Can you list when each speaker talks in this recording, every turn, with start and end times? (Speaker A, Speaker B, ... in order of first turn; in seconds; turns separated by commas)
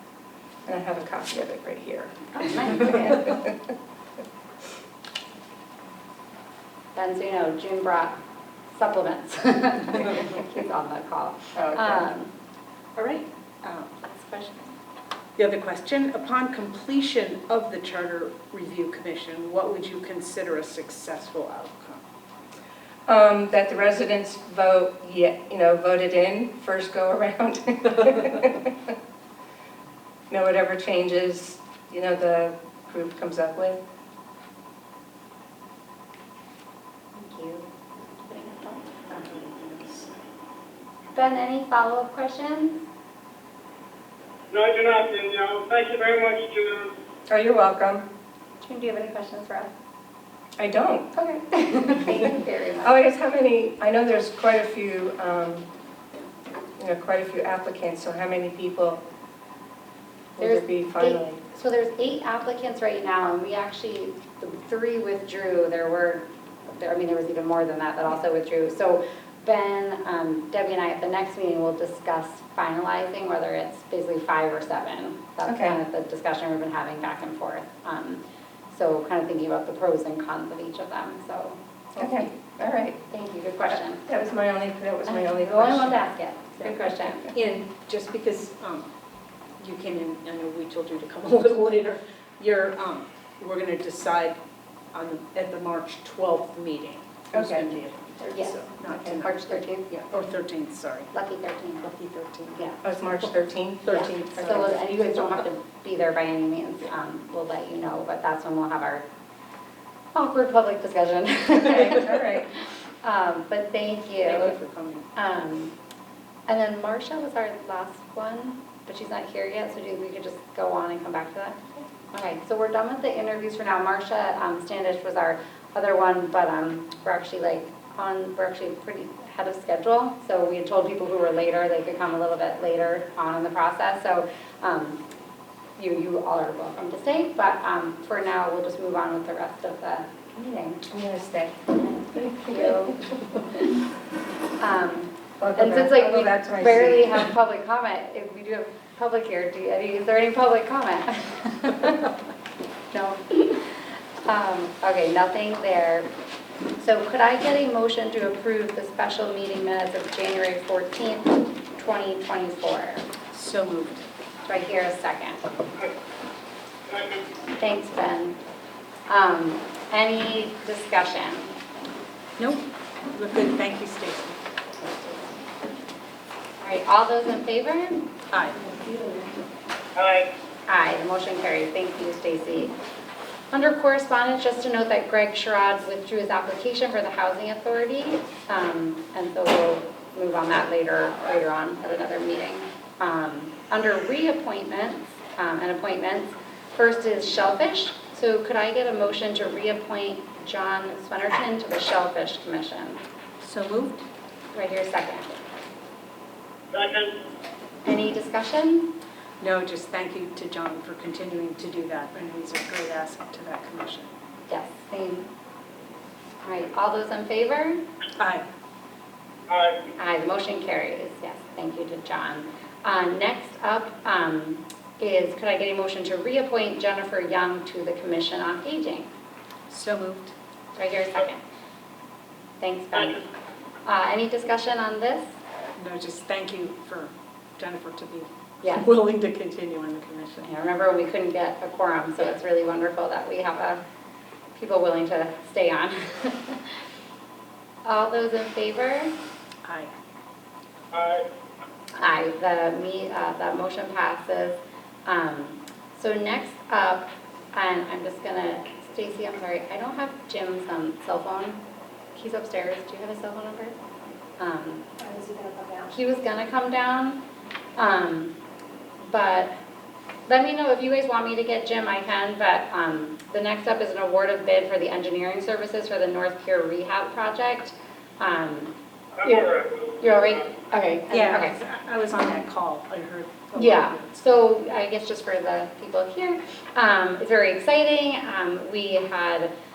Speaker A: 0.7-3.5, Speaker B: 2.3-3.4, Speaker B: 6.9-8.2, Speaker B: 8.7-12.3, Speaker A: 11.6-12.0, Speaker C: 12.9-13.9, Speaker B: 14.0-14.8, Speaker C: 15.4-22.0, Speaker A: 23.1-28.7, Speaker A: 30.3-33.8, Speaker B: 37.1-39.1, Speaker C: 39.1-40.1, Speaker B: 41.1-42.8, Speaker D: 44.5-46.9, Speaker A: 47.3-48.0, Speaker B: 48.6-49.7, Speaker A: 50.6-51.1, Speaker B: 51.1-53.0, Speaker A: 52.8-55.6, Speaker A: 56.8-59.0, Speaker A: 60.4-61.4, Speaker B: 60.4-82.2, Speaker A: 75.5-75.8, Speaker A: 82.0-83.1, Speaker B: 83.1-84.0, Speaker A: 83.6-86.0, Speaker B: 85.0-87.3, Speaker A: 86.6-87.1, Speaker C: 87.3-88.9, Speaker C: 89.6-94.4, Speaker C: 94.9-101.1, Speaker A: 97.3-97.7, Speaker B: 98.3-99.9, Speaker A: 98.9-99.2, Speaker B: 101.1-101.9, Speaker C: 101.8-102.7, Speaker A: 102.8-104.0, Speaker C: 103.8-104.7, Speaker B: 103.9-109.0, Speaker B: 110.1-112.5, Speaker A: 111.6-112.5, Speaker B: 113.0-114.6, Speaker C: 114.2-115.0, Speaker B: 115.1-115.7, Speaker B: 116.5-135.0, Speaker B: 135.8-140.8, Speaker A: 140.9-142.8, Speaker B: 141.7-143.7, Speaker B: 144.6-152.1, Speaker A: 145.4-147.3, Speaker B: 152.9-156.1, Speaker B: 156.8-163.0, Speaker C: 163.3-164.0, Speaker B: 164.4-165.4, Speaker D: 166.9-167.2, Speaker B: 167.5-168.4, Speaker B: 169.1-171.5, Speaker C: 172.4-175.2, Speaker B: 176.6-178.1, Speaker C: 178.3-178.7, Speaker D: 179.9-180.3, Speaker B: 180.7-182.7, Speaker B: 183.5-203.0, Speaker C: 203.4-204.0, Speaker B: 204.5-205.4, Speaker D: 206.7-207.2, Speaker B: 207.8-208.9, Speaker C: 209.4-214.1, Speaker B: 214.5-215.3, Speaker B: 216.4-217.8, Speaker C: 218.2-218.4, Speaker D: 219.5-219.8, Speaker B: 219.9-229.1, Speaker C: 229.7-230.3, Speaker B: 230.8-231.4, Speaker B: 232.6-233.2, Speaker B: 233.8-235.2, Speaker C: 235.8-240.5, Speaker B: 240.4-243.8, Speaker B: 244.5-246.6, Speaker B: 247.8-249.1, Speaker C: 249.6-249.9, Speaker D: 250.9-251.2, Speaker B: 251.9-261.6, Speaker B: 262.1-263.7, Speaker B: 264.4-265.0, Speaker C: 265.0-265.9, Speaker B: 265.9-267.2, Speaker B: 267.8-268.3, Speaker B: 269.0-269.5, Speaker B: 270.3-281.6, Speaker D: 279.6-279.9, Speaker C: 281.1-284.3, Speaker B: 283.5-289.5